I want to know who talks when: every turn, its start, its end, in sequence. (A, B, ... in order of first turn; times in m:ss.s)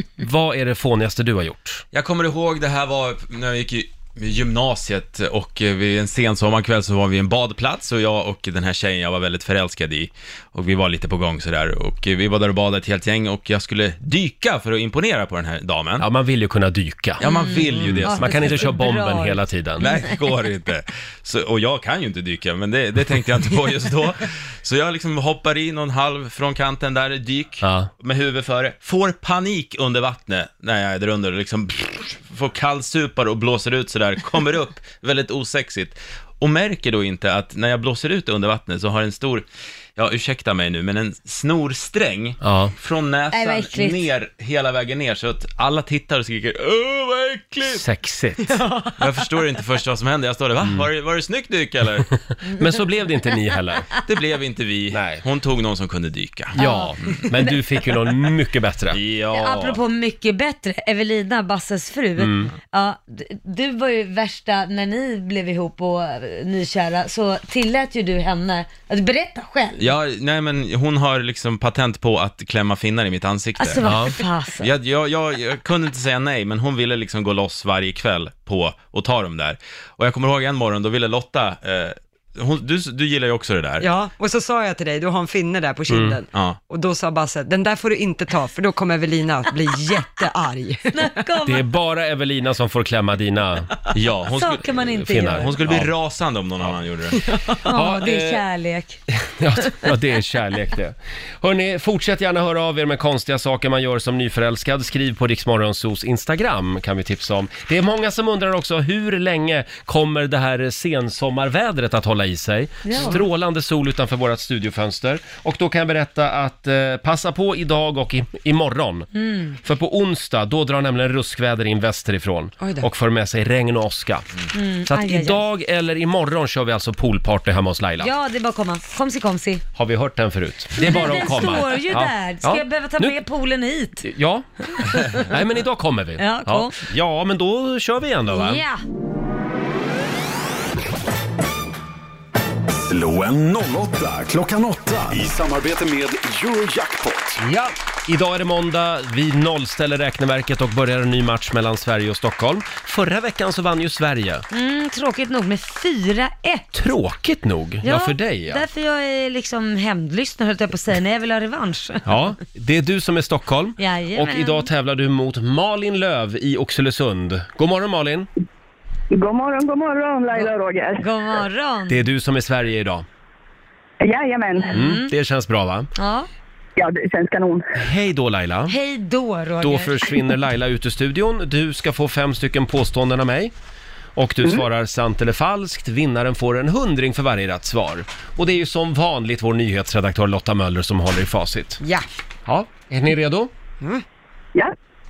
0:00.2-0:01.8 A
0:01.9-0:16.0 B
0:16.0-0:19.9 A
0:17.2-0:18.4 B
0:17.2-0:19.4 C
0:19.8-0:47.8 B
0:27.6-0:27.9 A
0:42.4-0:42.7 A
0:43.3-0:44.0 C
0:47.7-0:48.6 A
0:49.0-0:52.1 B
0:52.5-0:53.9 A
0:54.0-0:56.6 B
0:54.9-0:55.2 A
0:56.5-0:59.0 A
0:56.6-0:56.9 C
0:58.9-0:59.8 B
0:59.3-1:09.9 C
1:02.2-1:02.5 A
1:09.8-1:23.9 B
1:13.6-1:14.7 C
1:13.8-1:14.1 A
1:23.8-1:31.2 D
1:25.9-1:26.2 A
1:30.9-1:31.6 C
1:31.4-1:33.7 A
1:33.9-1:34.8 B
1:34.3-1:35.5 C
1:35.0-1:35.9 A
1:35.4-1:37.2 B
1:37.2-1:37.6 D
1:37.6-1:39.0 C
1:37.7-1:38.4 A
1:39.2-1:59.1 A
1:52.8-1:53.2 C
1:59.2-1:59.6 C
1:59.6-2:04.3 A
2:02.6-2:02.9 D
2:04.5-2:05.4 C
2:04.9-2:08.1 A
2:08.0-2:09.6 C
2:09.8-2:13.2 A
2:10.8-2:14.0 C
2:14.0-2:18.6 A
2:14.8-2:15.2 C
2:16.2-2:16.7 C
2:18.3-2:18.8 C
2:22.7-2:27.4 E
2:27.4-2:34.4 A
2:34.5-2:36.7 C
2:36.7-2:38.6 A
2:37.8-2:42.1 C
2:42.1-2:48.3 A
2:43.8-2:44.7 C
2:49.1-2:51.1 F
2:51.0-2:52.0 C
2:51.9-2:53.1 A
2:54.0-2:54.8 F
2:54.6-2:55.1 C
2:54.7-2:55.9 A
2:56.0-2:56.3 C
2:56.8-2:57.7 F
2:57.8-2:58.8 A
2:58.7-3:00.1 C
2:59.6-3:03.5 A
3:04.2-3:11.8 A
3:11.8-3:12.1 D
3:12.5-3:13.5 A